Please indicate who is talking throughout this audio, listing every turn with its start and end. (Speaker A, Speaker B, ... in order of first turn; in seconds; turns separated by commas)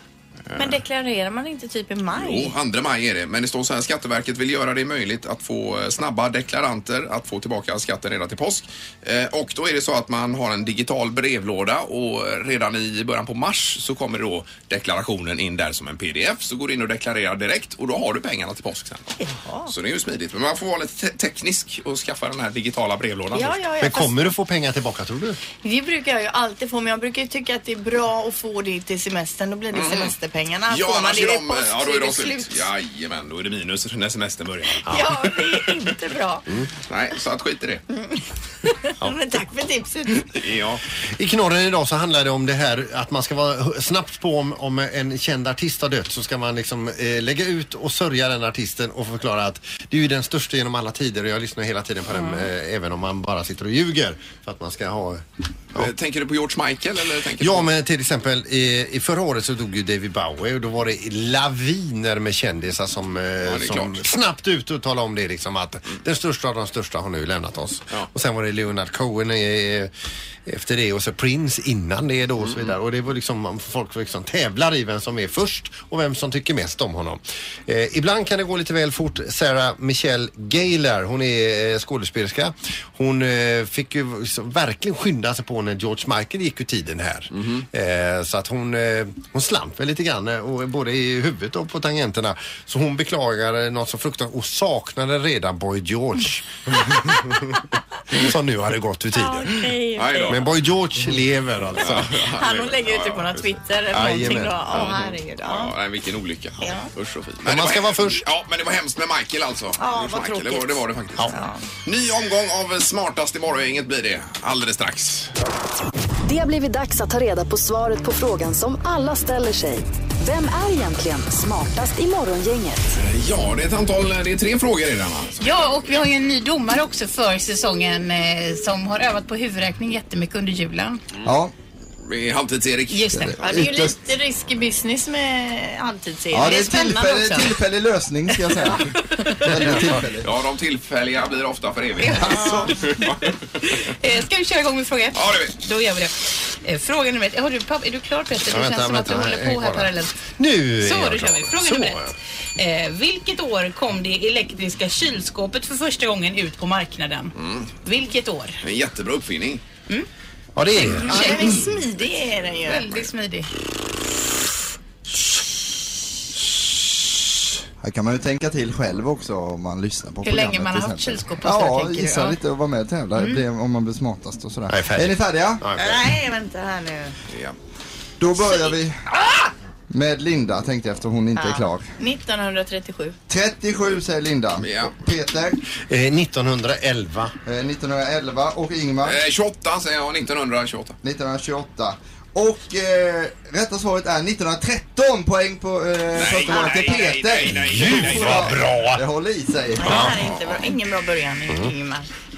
Speaker A: 0.5-0.8, Speaker B: 0.6-2.5, Speaker A: 2.2-23.6, Speaker B: 19.2-19.7, Speaker B: 23.3-24.3, Speaker C: 23.8-25.4, Speaker B: 25.6-32.7, Speaker A: 29.7-30.1, Speaker A: 30.7-35.1, Speaker C: 34.9-35.1, Speaker B: 34.9-36.5, Speaker A: 36.9-37.9, Speaker B: 38.0-40.3, Speaker A: 40.3-40.8, Speaker C: 41.0-55.2, Speaker A: 55.8-57.7, Speaker C: 57.4-69.9, Speaker A: 63.5-64.0, Speaker C: 70.5-99.7, Speaker A: 72.4-72.7, Speaker A: 87.4-87.7, Speaker B: 99.1-100.4, Speaker A: 100.0-100.4, Speaker C: 100.3-102.2, Speaker A: 101.8-103.5, Speaker B: 102.2-105.7, Speaker C: 103.9-104.9, Speaker A: 104.7-111.3, Speaker B: 106.6-106.9, Speaker C: 107.4-108.3, Speaker B: 109.8-111.6, Speaker A: 111.9-115.3, Speaker D: 116.2-122.9, Speaker A: 123.0-125.7, Speaker E: 125.4-131.0, Speaker F: 131.2-131.5, Speaker A: 132.0-133.2, Speaker E: 132.9-133.6, Speaker F: 133.2-133.9, Speaker B: 133.4-137.6, Speaker F: 136.3-140.3, Speaker A: 140.2-143.4, Speaker E: 142.0-143.1, Speaker F: 142.2-142.8, Speaker E: 143.6-150.2, Speaker A: 145.1-145.6, Speaker C: 148.5-152.2, Speaker E: 150.8-157.3, Speaker A: 157.4-157.7, Speaker E: 157.8-158.6, Speaker A: 158.6-159.6, Speaker C: 160.6-161.6, Speaker E: 160.8-161.7, Speaker B: 161.0-162.9, Speaker E: 162.7-163.5, Speaker F: 167.8-175.6, Speaker E: 170.2-172.4, Speaker C: 174.7-176.1, Speaker B: 175.8-177.2, Speaker A: 177.3-177.6, Speaker F: 178.2-179.0, Speaker F: 179.9-181.9, Speaker B: 181.4-183.2, Speaker F: 183.3-185.6, Speaker A: 184.6-184.9, Speaker C: 185.8-187.3, Speaker F: 187.5-189.2, Speaker A: 189.0-191.0, Speaker F: 191.0-200.1, Speaker A: 196.1-198.6, Speaker B: 196.5-196.9, Speaker C: 197.4-199.1, Speaker B: 199.8-202.1, Speaker C: 199.9-200.2, Speaker A: 199.9-200.7